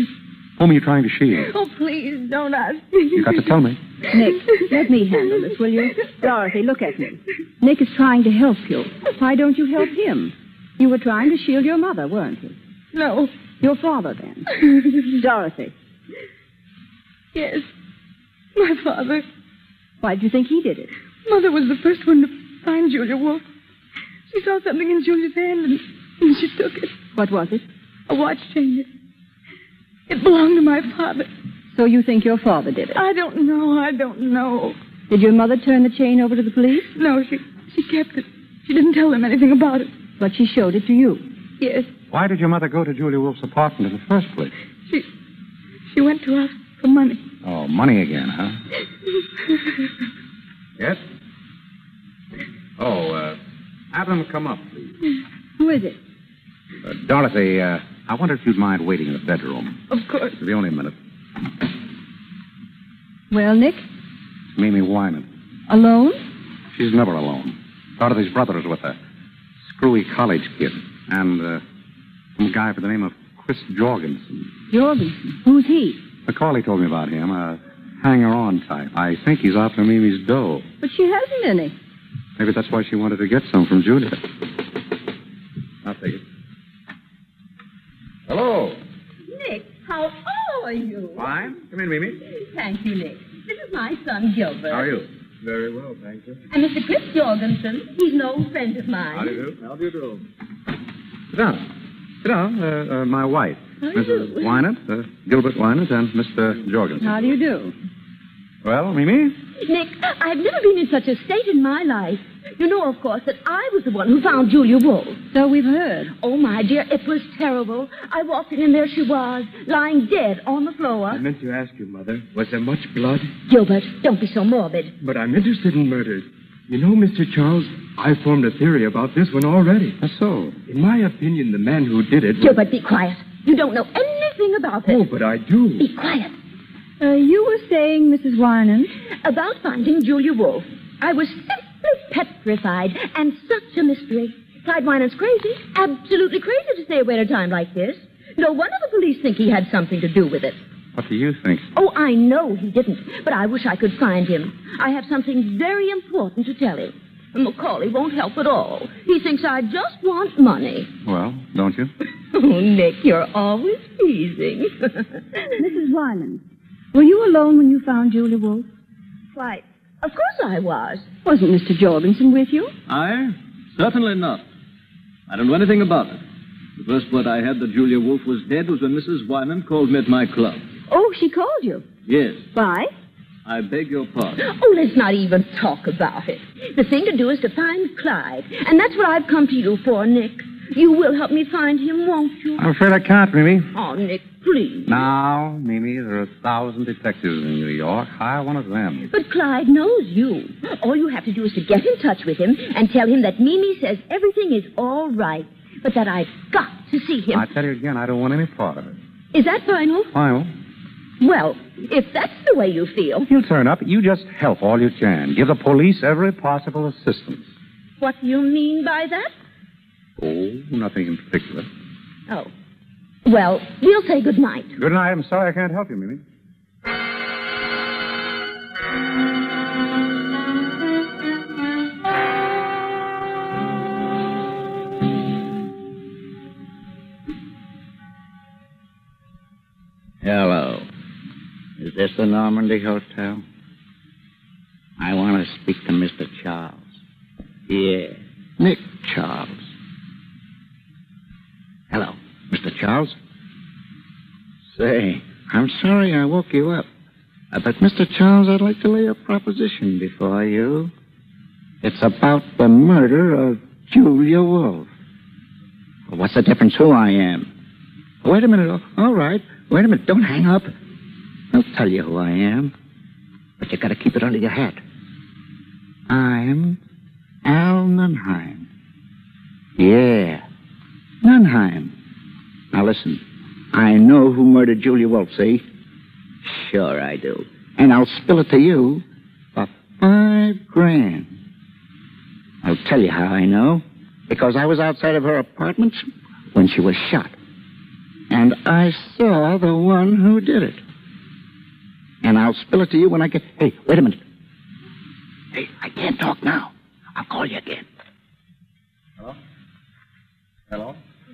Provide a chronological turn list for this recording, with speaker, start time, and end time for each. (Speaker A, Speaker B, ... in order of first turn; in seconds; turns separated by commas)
Speaker A: 0.6-1.5, Speaker B: 1.6-3.3, Speaker A: 3.1-3.8, Speaker C: 4.1-12.6, Speaker B: 12.9-13.3, Speaker C: 13.6-14.5, Speaker C: 15.1-15.7, Speaker B: 17.4-17.7, Speaker B: 18.6-19.2, Speaker C: 20.0-20.9, Speaker B: 21.2-23.4, Speaker B: 24.3-26.9, Speaker C: 27.1-27.6, Speaker B: 28.1-28.9, Speaker B: 30.1-31.3, Speaker C: 31.7-33.0, Speaker B: 33.0-34.8, Speaker C: 35.1-36.9, Speaker B: 37.0-39.9, Speaker C: 40.2-41.2, Speaker B: 41.6-41.9, Speaker A: 42.1-44.5, Speaker B: 45.9-47.2, Speaker A: 47.4-48.6, Speaker A: 52.8-53.4, Speaker A: 53.9-54.9, Speaker C: 55.6-56.0, Speaker A: 56.8-59.8, Speaker B: 59.9-60.4, Speaker A: 60.4-60.9, Speaker C: 63.3-63.8, Speaker A: 64.5-65.3, Speaker C: 65.7-66.2, Speaker A: 66.7-69.0, Speaker A: 69.7-71.6, Speaker A: 72.4-74.3, Speaker C: 74.7-76.0, Speaker A: 76.3-80.7, Speaker C: 80.8-81.7, Speaker A: 82.4-84.2, Speaker A: 85.8-86.2, Speaker A: 88.3-88.8, Speaker D: 89.3-91.3, Speaker A: 91.2-92.2, Speaker D: 92.3-95.0, Speaker A: 94.7-95.1, Speaker D: 96.5-99.5, Speaker A: 99.2-99.5, Speaker A: 101.3-101.7, Speaker A: 102.2-107.2, Speaker D: 103.8-104.6, Speaker C: 107.0-107.8, Speaker A: 108.6-109.3, Speaker D: 109.6-115.2, Speaker C: 115.3-116.1, Speaker D: 116.2-121.2, Speaker E: 121.1-123.3, Speaker D: 123.5-124.9, Speaker E: 125.0-130.0, Speaker A: 130.0-130.6, Speaker E: 130.7-132.6, Speaker D: 132.4-135.0, Speaker E: 134.8-135.9, Speaker D: 135.8-136.3, Speaker C: 137.0-138.9, Speaker D: 139.2-150.6, Speaker A: 150.9-151.7, Speaker D: 151.8-160.9, Speaker A: 161.1-161.9, Speaker D: 162.3-165.1, Speaker C: 165.6-166.4, Speaker C: 166.9-168.7, Speaker D: 169.3-171.1, Speaker C: 171.2-172.7, Speaker F: 172.9-174.4, Speaker F: 175.3-176.2, Speaker F: 176.8-180.6, Speaker C: 180.9-181.8, Speaker F: 182.1-182.4, Speaker C: 182.5-182.9, Speaker F: 183.5-184.3, Speaker D: 184.4-192.6, Speaker A: 192.6-193.7, Speaker D: 193.7-195.0, Speaker A: 194.9-199.1, Speaker D: 199.1-207.5, Speaker A: 207.3-209.0, Speaker D: 209.3-210.1, Speaker A: 210.1-210.5, Speaker D: 211.2-213.3, Speaker A: 213.3-217.5, Speaker D: 218.0-219.3, Speaker A: 220.2-221.7, Speaker D: 223.3-224.7, Speaker A: 224.8-226.2, Speaker G: 240.2-240.8, Speaker G: 241.8-243.4, Speaker G: 245.0-246.9, Speaker G: 247.7-249.7, Speaker G: 251.9-253.2, Speaker G: 254.8-256.9, Speaker G: 257.5-260.9, Speaker G: 261.8-264.9, Speaker G: 266.1-267.5, Speaker G: 268.2-270.7, Speaker G: 271.5-272.7, Speaker G: 273.6-274.8, Speaker G: 276.1-276.8, Speaker G: 277.4-278.7, Speaker G: 279.8-280.4, Speaker G: 281.2-281.9, Speaker G: 282.7-285.6, Speaker G: 286.4-289.0, Speaker G: 289.6-291.3, Speaker G: 292.6-297.3, Speaker G: 298.3-300.8, Speaker G: 302.2-304.2, Speaker G: 305.5-307.8, Speaker A: 310.7-311.0